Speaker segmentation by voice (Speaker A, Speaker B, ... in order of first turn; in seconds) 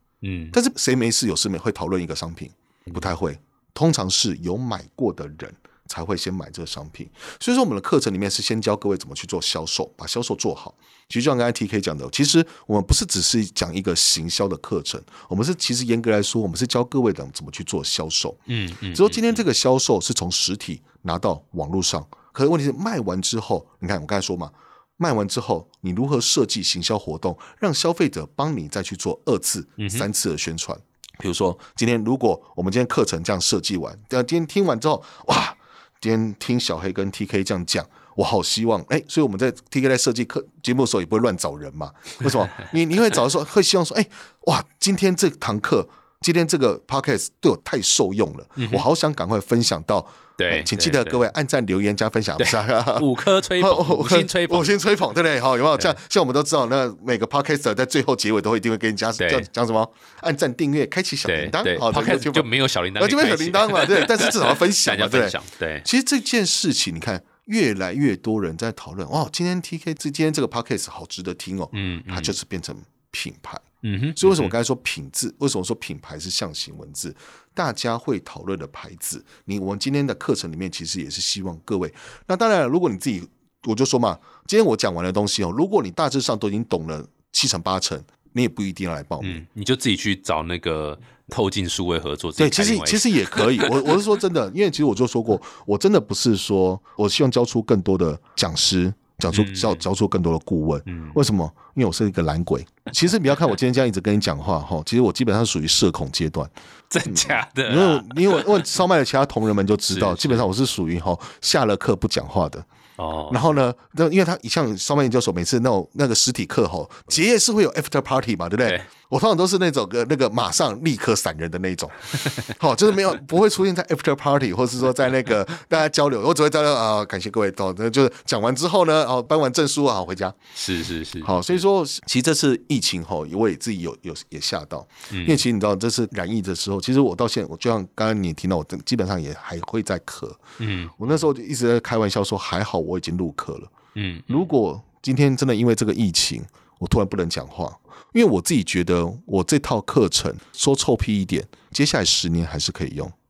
Speaker A: 0.2-0.6, 18.5-19.4, 29.8-30.1, 48.6-48.9, 50.4-51.2, 52.4-54.7, 59.2-59.5, 61.2-65.8, 71.7-72.4, 73.8-74.5, 89.2-94.0, 99.3-99.8, 100.8-101.2, 106.9-108.6, 109.9-110.5, 113.0-113.4, 130.6-131.6, 135.1-135.4, 140.6-141.2, 143.9-144.5
Speaker B: 0.5-18.4, 18.9-73.6, 74.2-89.4, 92.4-106.5, 107.0-112.7, 113.3-130.4, 131.2-140.4, 141.0-143.7, 144.3-153.1